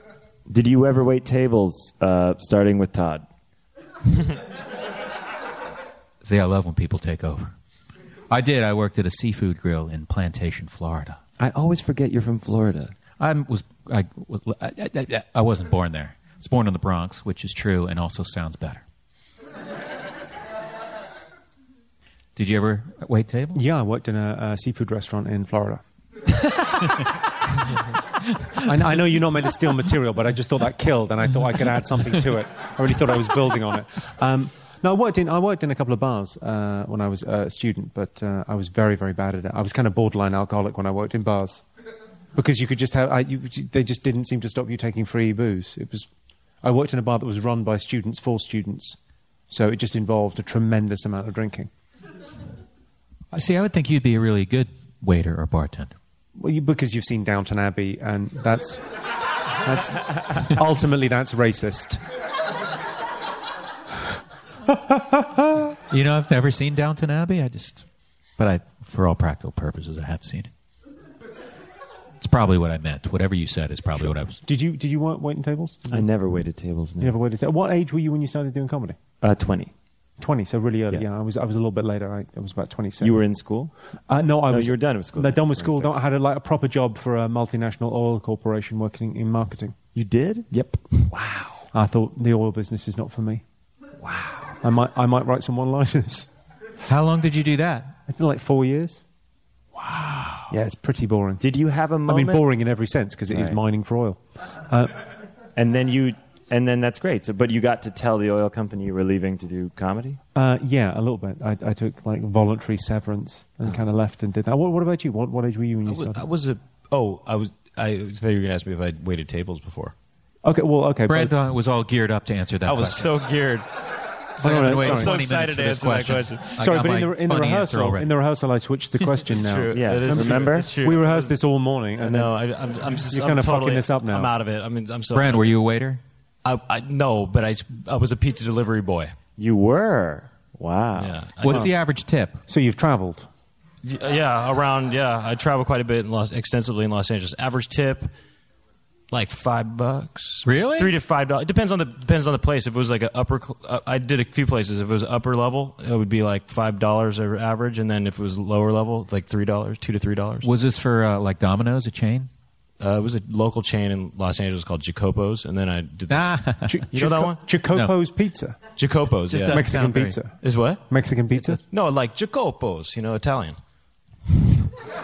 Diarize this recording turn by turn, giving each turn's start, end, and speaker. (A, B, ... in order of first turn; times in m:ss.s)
0:00.5-0:03.2 A
0:06.2-0:07.6 B
0:08.3-0:11.2 B
0:11.4-0:12.9 A
0:13.2-0:18.8 B
0:22.4-0:23.6 B
0:23.5-0:25.8 C
0:28.6-0:41.6 C
0:42.4-0:46.1 C
0:46.6-0:49.0 C
0:49.5-0:51.7 C
0:53.3-0:56.0 B
0:56.4-1:02.0 C
1:04.7-1:05.4 C
1:05.8-1:07.9 B
1:08.4-1:10.5 B
1:12.2-1:14.4 B
1:14.0-1:16.1 C
1:15.9-1:17.2 A
1:17.0-1:19.0 C
1:19.2-1:19.7 A
1:20.2-1:23.3 C
1:23.0-1:23.7 A
1:24.1-1:29.8 C
1:24.5-1:26.0 A
1:29.9-1:31.6 A
1:30.5-1:30.8 C
1:31.7-1:33.4 C
1:34.1-1:34.4 A
1:34.6-1:36.3 C
1:36.9-1:38.0 B
1:38.1-1:39.0 C
1:39.9-1:40.2 B
1:40.5-1:41.5 C
1:41.4-1:42.4 A
1:42.1-1:45.0 C
1:43.3-1:43.6 A
1:45.6-1:50.2 A
1:50.4-1:56.2 C
1:55.9-1:59.9 D
2:00.4-2:01.4 C
2:01.1-2:03.1 B
2:02.6-2:03.7 D
2:04.4-2:05.2 C
2:04.4-2:08.1 B
2:04.7-2:06.6 D
2:06.6-2:12.4 C
2:09.3-2:11.4 D
2:09.7-2:10.8 A
2:12.0-2:15.5 D
2:13.0-2:14.3 C
2:15.1-2:16.0 B
2:16.4-2:19.1 D
2:19.4-2:21.3 A
2:21.0-2:21.7 D
2:21.4-2:22.4 B
2:22.5-2:23.3 C
2:23.8-2:28.1 D
2:29.1-2:40.5 D
2:30.4-2:31.0 B
2:40.4-2:42.3 B
2:42.8-2:47.4 D
2:46.1-2:46.9 B
2:46.6-2:48.6 C
2:48.8-2:49.7 D
2:49.3-2:50.2 B
2:49.4-2:50.4 C
2:50.4-2:50.9 D
2:50.9-2:51.6 C
2:51.5-2:53.6 D